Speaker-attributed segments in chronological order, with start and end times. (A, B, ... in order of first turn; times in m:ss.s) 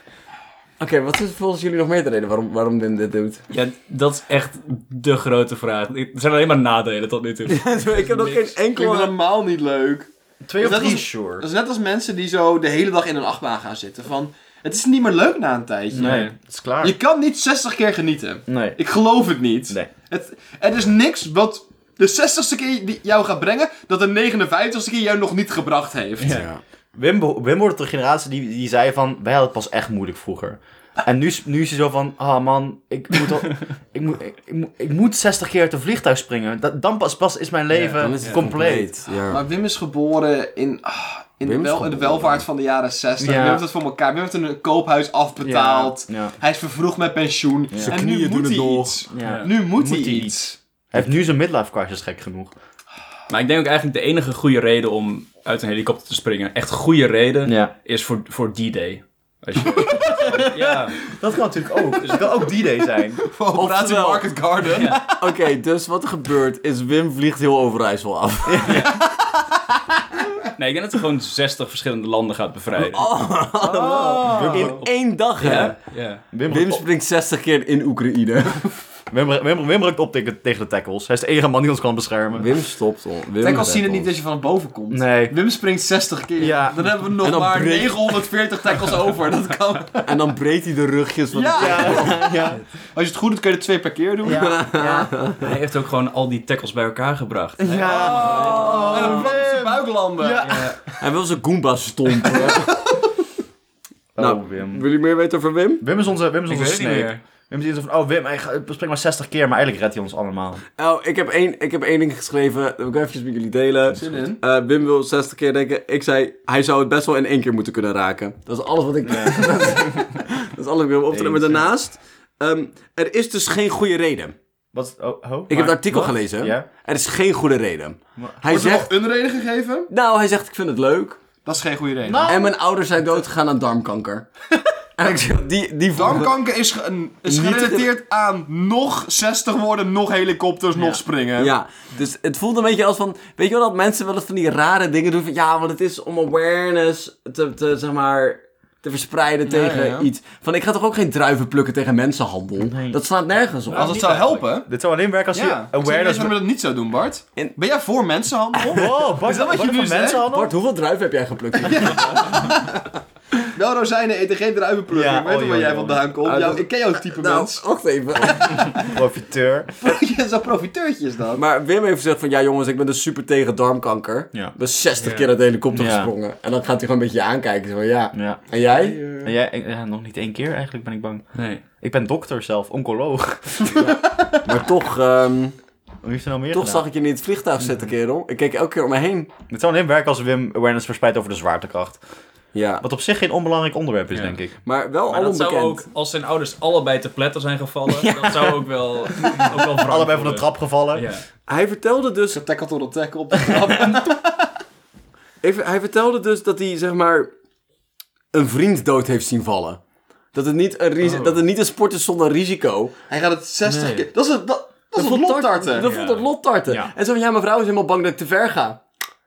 0:00.8-0:03.4 A
0:03.5-0:08.4 B
0:07.5-0:09.1 A
0:08.3-0:16.3 C
0:10.4-0:11.5 D
0:15.9-0:17.0 D
0:16.0-0:16.3 B
0:16.8-0:26.4 C
0:18.5-0:18.8 D
0:26.2-0:26.5 B
0:26.3-0:26.6 A
0:27.0-0:38.9 D
0:37.7-0:39.4 A
0:39.3-0:50.6 C
0:41.4-0:42.4 A
0:43.2-0:43.6 D
0:45.4-0:46.3 D
0:47.8-0:49.0 A
0:49.1-0:52.5 D
0:49.2-0:49.5 B
0:53.3-1:01.1 B
0:57.5-0:57.7 D
0:59.8-1:03.2 D
1:02.0-1:02.4 B
1:03.2-1:05.2 C
1:03.5-1:04.3 A
1:04.7-1:05.0 B
1:05.2-1:08.7 A
1:08.5-1:09.0 D
1:08.7-1:09.0 B
1:10.6-1:13.1 B
1:12.8-1:15.8 A
1:13.6-1:14.8 C
1:14.2-1:14.9 D
1:15.4-1:16.2 B
1:16.3-1:16.8 D
1:16.5-1:18.7 A
1:19.1-1:22.5 D
1:22.3-1:24.1 A
1:23.4-1:30.0 C
1:24.9-1:25.4 D
1:26.4-1:26.8 D
1:27.2-1:28.2 A
1:30.0-1:32.4 A
1:31.3-1:32.4 C
1:31.6-1:32.6 D
1:32.9-1:34.6 C
1:34.2-1:35.1 D
1:34.3-1:35.5 A
1:35.4-1:39.1 B
1:37.6-1:40.9 D
1:37.7-1:40.6 C
1:38.2-1:39.2 A
1:40.4-1:40.8 B
1:41.0-1:42.8 A
1:44.2-1:44.8 D
1:44.2-1:45.8 A
1:45.8-1:50.6 D
1:46.5-1:47.2 B
1:50.8-2:04.4 A
1:53.9-1:54.4 C
1:59.0-1:59.9 D
2:01.1-2:01.7 D
2:04.7-2:06.7 D
2:05.5-2:08.9 A
2:08.2-2:08.8 D
2:08.5-2:09.9 C
2:09.9-2:11.2 A
2:11.4-2:12.3 C
2:12.0-2:12.5 D
2:12.3-2:14.3 A
2:15.0-2:16.4 A
2:15.9-2:21.5 C
2:17.2-2:17.9 A
2:20.8-2:21.0 D
2:21.4-2:34.1 A
2:29.5-2:30.1 C
2:32.6-2:33.0 D
2:33.7-2:34.4 B
2:33.7-2:34.7 C
2:34.6-2:36.4 D
2:35.3-2:40.2 C
2:38.7-2:40.5 D
2:40.3-2:42.5 A
2:41.6-2:42.8 C
2:43.4-2:47.6 C
2:44.9-2:46.1 D
2:46.2-2:49.0 A
2:48.3-2:48.6 C
2:48.9-2:49.7 D
2:49.8-2:51.4 C
2:51.4-2:59.3 A
2:55.0-2:55.3 B
2:55.7-2:56.1 D
2:58.1-2:58.4 D
2:59.0-3:01.2 D
3:01.4-3:01.6 B
3:01.8-3:04.4 D
3:03.7-3:05.6 A
3:06.0-3:06.9 D
3:06.5-3:09.3 A
3:09.5-3:12.0 D
3:12.5-3:12.8 A
3:12.8-3:14.6 D
3:14.1-3:14.4 B
3:14.6-3:15.8 A
3:15.1-3:21.2 B
3:17.9-3:21.1 D
3:21.5-3:22.4 A
3:22.3-3:24.3 C
3:25.4-3:27.3 A
3:28.3-3:29.8 A
3:30.3-3:32.9 A
3:31.0-3:31.4 B
3:33.1-3:35.9 C
3:33.7-3:34.1 B
3:34.9-3:38.8 A
3:35.8-3:36.2 B